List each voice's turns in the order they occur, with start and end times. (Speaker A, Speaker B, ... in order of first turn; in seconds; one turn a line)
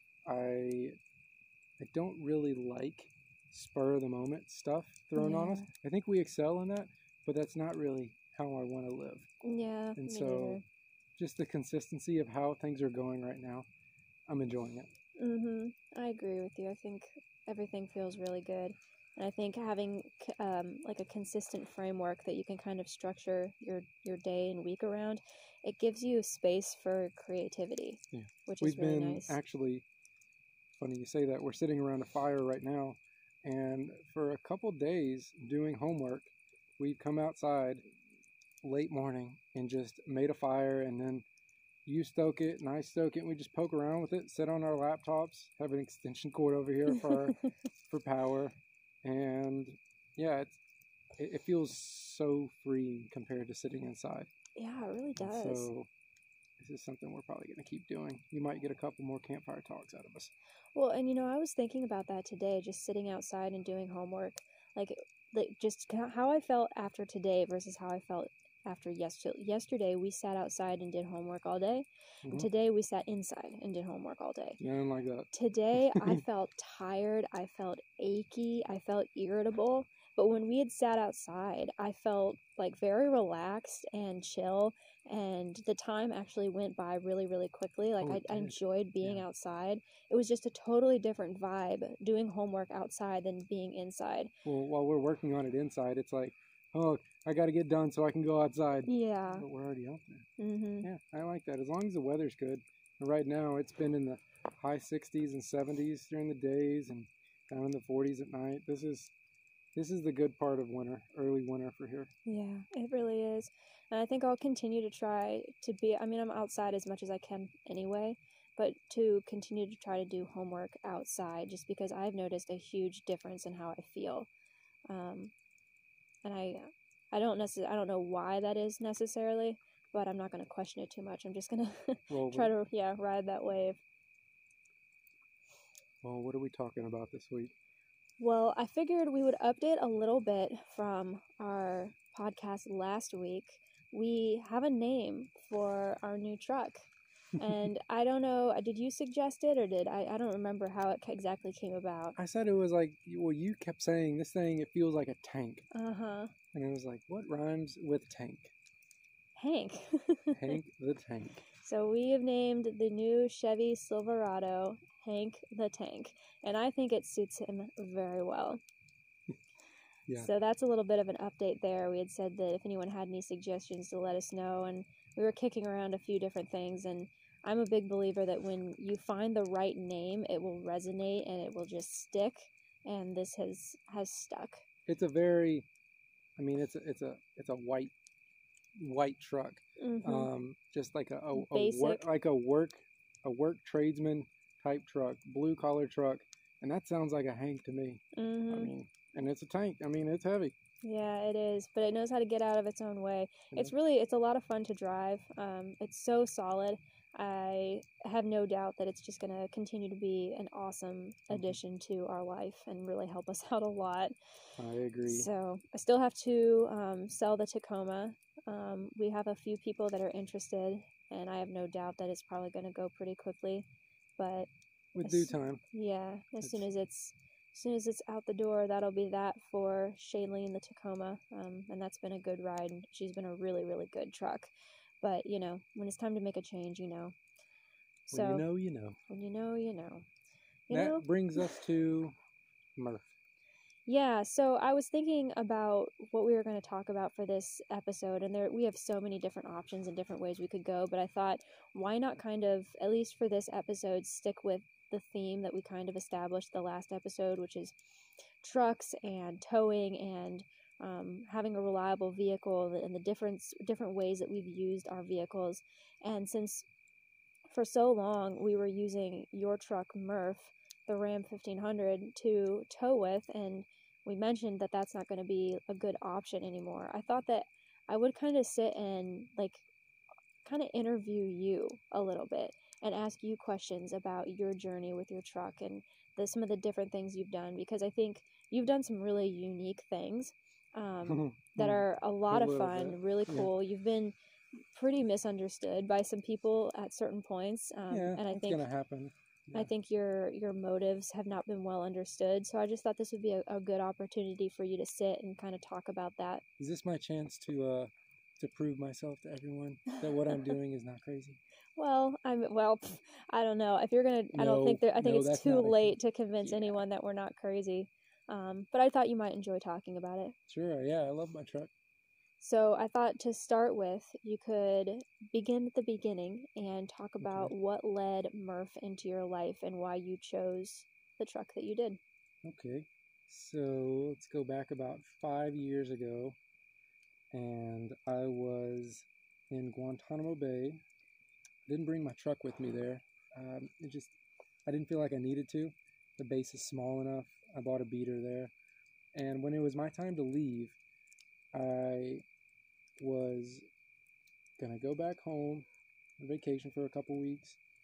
Speaker A: 0.3-1.0
Speaker A: 1.8-9.3
Speaker B: 5.2-5.7
Speaker B: 9.4-10.6
Speaker A: 10.0-10.6
Speaker A: 11.2-13.7
Speaker A: 14.3-14.9
Speaker B: 15.2-29.4
Speaker A: 28.1-29.9
Speaker A: 30.8-37.8
Speaker A: 38.6-41.2
Speaker A: 41.9-47.4
Speaker B: 47.0-47.5
Speaker A: 47.9-50.6
Speaker A: 51.2-54.3
Speaker B: 54.6-55.7
Speaker A: 55.2-55.9
Speaker A: 56.6-60.3
Speaker B: 60.8-74.6
Speaker A: 72.2-72.5
Speaker A: 74.6-76.2
Speaker B: 75.3-94.3
Speaker A: 88.0-89.2
Speaker A: 94.5-100.3
Speaker B: 98.9-99.5
Speaker B: 100.4-100.9
Speaker A: 100.8-109.1
Speaker A: 109.8-112.1
Speaker B: 112.3-124.3
Speaker B: 124.9-125.3
Speaker B: 126.2-133.8
Speaker A: 132.1-132.5
Speaker A: 136.0-137.5
Speaker B: 138.2-152.2
Speaker A: 147.4-147.7
Speaker A: 152.2-155.7
Speaker B: 155.7-156.3
Speaker A: 156.5-158.5
Speaker B: 159.4-160.6
Speaker A: 160.3-161.4
Speaker B: 161.6-168.6
Speaker B: 170.2-184.6
Speaker A: 184.9-185.7
Speaker A: 186.4-187.9
Speaker A: 188.8-200.6
Speaker B: 189.8-190.3
Speaker B: 191.3-192.1
Speaker B: 198.2-198.7
Speaker B: 200.8-214.1
Speaker A: 211.3-211.6
Speaker A: 214.6-215.3
Speaker B: 215.1-223.7
Speaker B: 224.2-224.5
Speaker A: 224.9-225.6
Speaker B: 225.0-234.5
Speaker A: 226.4-226.7
Speaker B: 235.0-237.2
Speaker A: 238.1-239.0
Speaker B: 238.1-238.4
Speaker B: 239.1-240.1
Speaker B: 240.7-241.6
Speaker A: 240.7-242.2
Speaker A: 242.8-243.1
Speaker B: 243.9-257.7
Speaker B: 258.4-266.7
Speaker B: 267.5-279.6
Speaker B: 280.4-294.1
Speaker A: 291.1-293.5
Speaker B: 294.7-298.6
Speaker A: 297.9-299.7
Speaker B: 299.5-306.4
Speaker A: 306.6-311.4
Speaker B: 311.8-320.4
Speaker A: 314.3-316.8
Speaker A: 320.5-321.7
Speaker B: 322.4-332.0
Speaker A: 327.2-327.5
Speaker A: 332.4-336.4
Speaker A: 337.3-340.8
Speaker A: 341.7-344.1
Speaker A: 344.7-348.5
Speaker A: 349.1-350.8
Speaker A: 351.5-352.2
Speaker A: 353.0-353.6
Speaker A: 354.6-355.7
Speaker A: 356.2-357.6